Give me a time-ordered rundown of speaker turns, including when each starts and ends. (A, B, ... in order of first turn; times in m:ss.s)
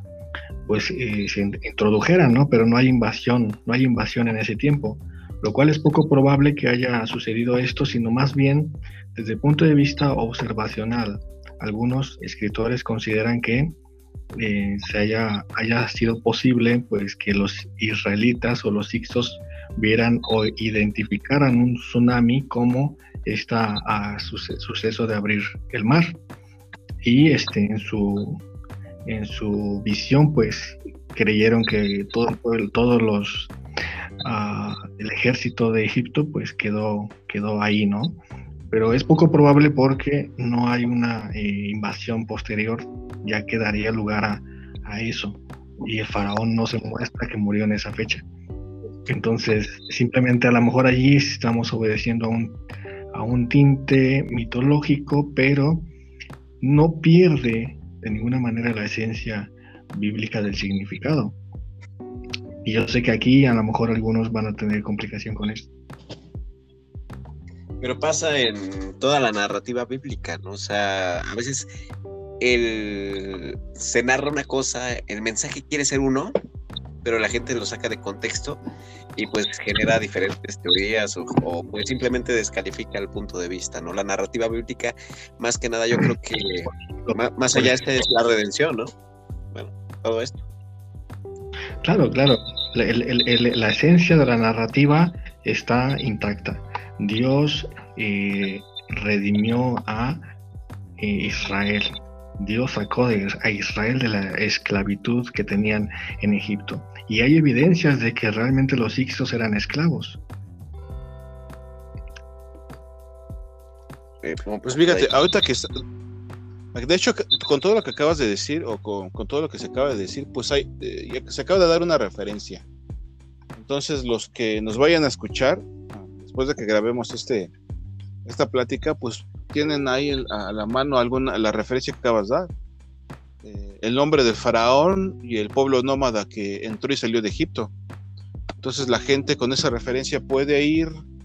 0:00.6-0:13.7 A
0:14.3-0:26.2 A
0:27.0-0:28.4 A
0:29.0-0:33.5 A
0:34.2-0:48.2 A
0:49.1-0:52.6 A
0:53.1-0:55.9 A
0:56.6-1:01.4 A
1:02.6-1:05.7 A
1:07.8-1:11.7 B
1:12.4-1:16.4 B
1:17.0-1:18.6 B
1:19.2-1:28.9 B
1:27.0-1:27.8 A
1:29.5-1:30.4 B
1:31.8-1:40.3 A
1:41.0-1:50.2 A
1:54.2-1:55.1 B
1:54.6-1:55.7 C
1:56.7-2:02.6 C
2:03.5-2:07.5 C
2:08.2-2:12.5 C
2:13.4-2:17.7 C
2:18.6-2:21.0 C